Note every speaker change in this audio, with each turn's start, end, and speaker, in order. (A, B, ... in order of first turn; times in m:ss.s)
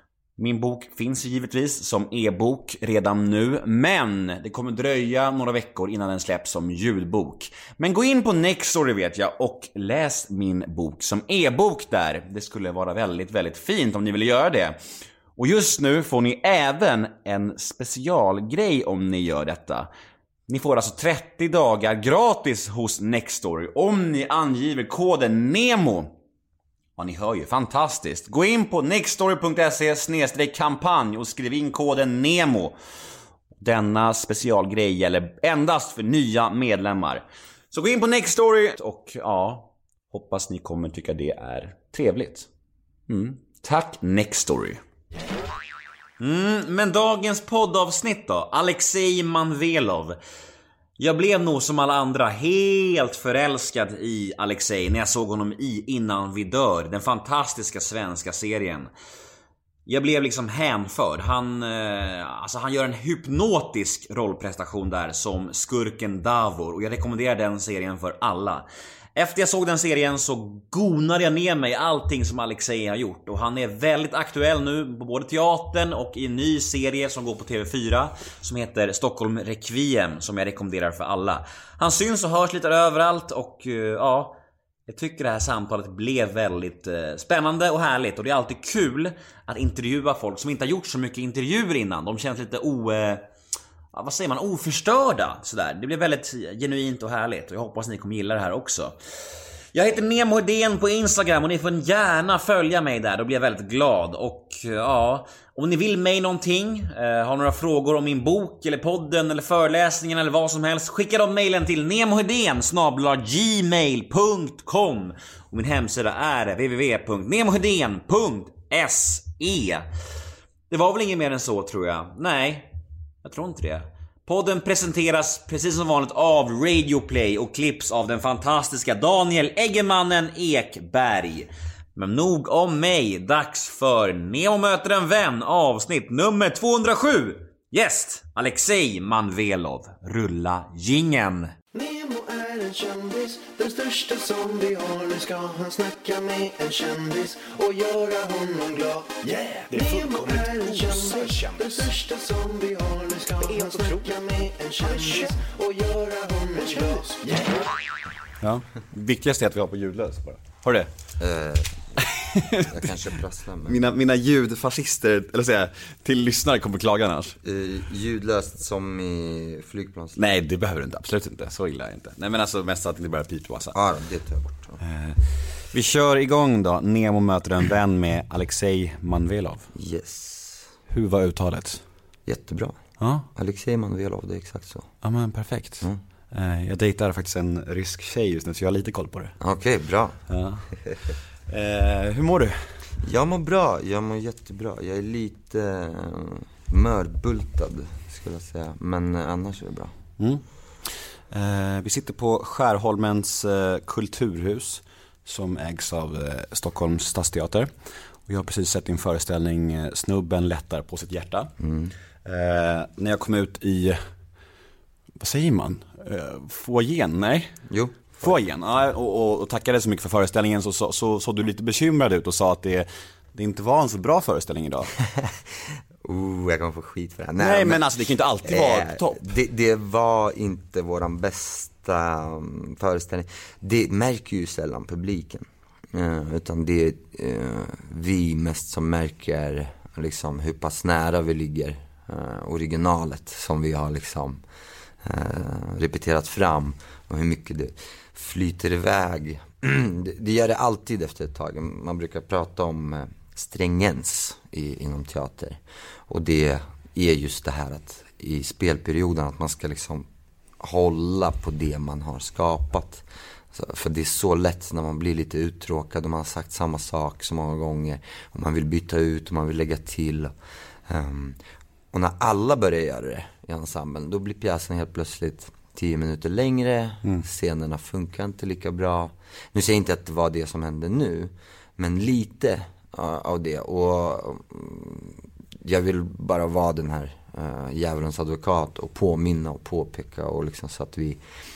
0:00.4-0:14.8 A
0:15.4-0:19.9 A
0:20.5-0:26.1 A
0:27.0-0:32.8 A
0:33.6-0:42.5 A
0:43.1-0:44.8 A
0:46.2-0:50.2 A
0:51.0-0:58.9 A
0:59.8-1:24.4 A
1:24.9-1:33.2 A
1:33.9-1:38.9 A
1:39.7-1:59.8 A
2:00.7-2:02.7 A
2:03.2-2:21.5 A
2:21.7-2:37.7 B
2:38.4-2:40.9 A
2:41.2-2:43.8 C
2:42.1-2:42.7 A
2:43.6-2:47.4 A
2:47.4-2:50.2 C
2:50.2-2:53.8 A
2:53.7-2:54.8 C
2:54.8-2:59.7 A
2:59.7-3:00.7 C
3:00.9-3:01.8 A
3:02.2-3:02.8 C
3:03.0-3:03.2 A
3:03.3-3:04.9 C
3:05.0-3:09.4 A
3:09.4-3:10.2 C
3:10.3-3:10.6 A
3:11.5-3:12.6 A
3:13.0-3:19.9 C
3:21.3-3:27.7 A
3:28.3-3:31.5 A
3:31.6-3:31.9 C
3:32.2-3:34.0 A
3:35.2-3:37.5 A
3:37.7-3:38.3 C
3:38.2-3:44.9 A
3:46.0-3:47.8 C
3:47.4-3:49.2 A
3:48.4-4:04.4 C
4:05.0-4:20.1 C
4:20.6-4:30.3 C
4:30.9-4:31.4 C
4:31.9-4:51.2 C